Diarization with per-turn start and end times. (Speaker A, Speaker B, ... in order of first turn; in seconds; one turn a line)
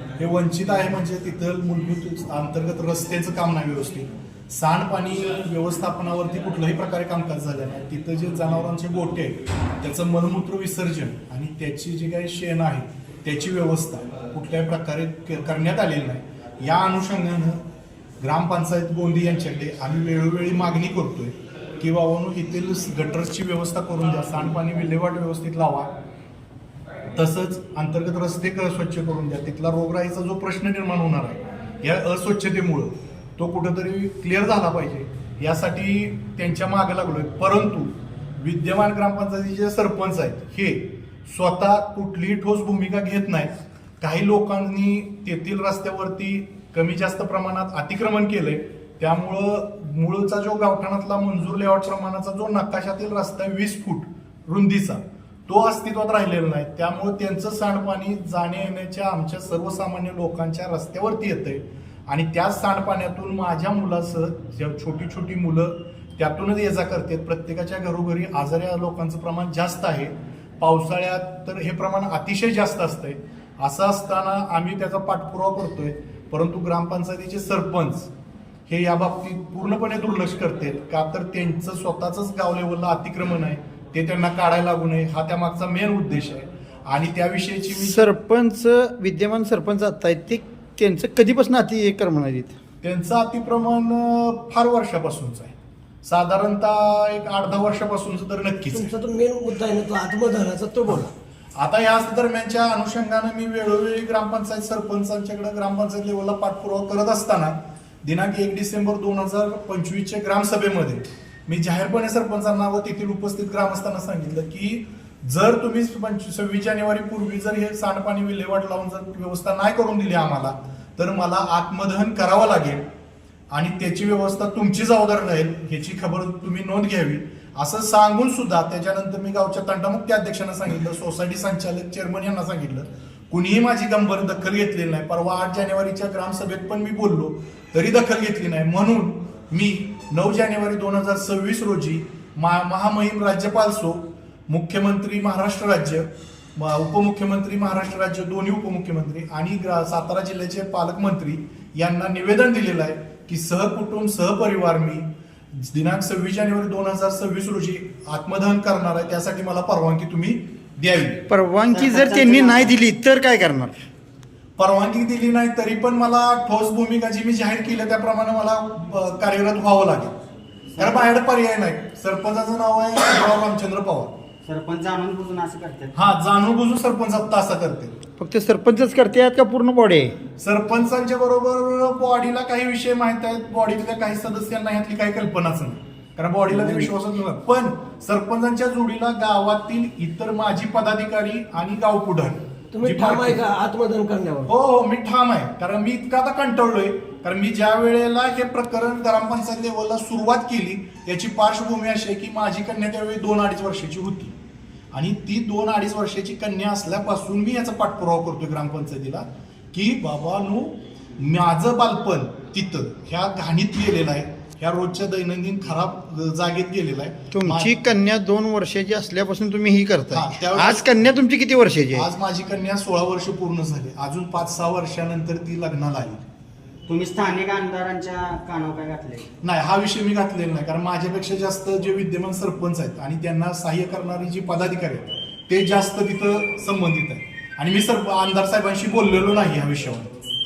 Speaker A: 0.2-17.6
Speaker A: 18.2-25.9
Speaker A: 27.2-78.1
Speaker A: 78.7-88.1
Speaker B: 87.8-92.5
Speaker A: 92.8-98.9
Speaker C: 98.8-101.1
Speaker A: 100.9-122.8
Speaker A: 123.5-161.2
Speaker B: 161.3-163.8
Speaker D: 161.7-162.7
Speaker A: 164.6-170.1
Speaker D: 170.8-171.1
Speaker A: 170.8-174.2
Speaker D: 174.4-176.1
Speaker A: 175.9-178.0
Speaker B: 178.2-180.2
Speaker A: 180.4-193.4
Speaker C: 192.7-194.5
Speaker A: 194.5-204.3
Speaker A: 204.9-217.8
Speaker B: 217.3-222.1
Speaker A: 220.1-221.2
Speaker A: 221.9-226.2
Speaker D: 226.9-229.3
Speaker A: 229.4-240.1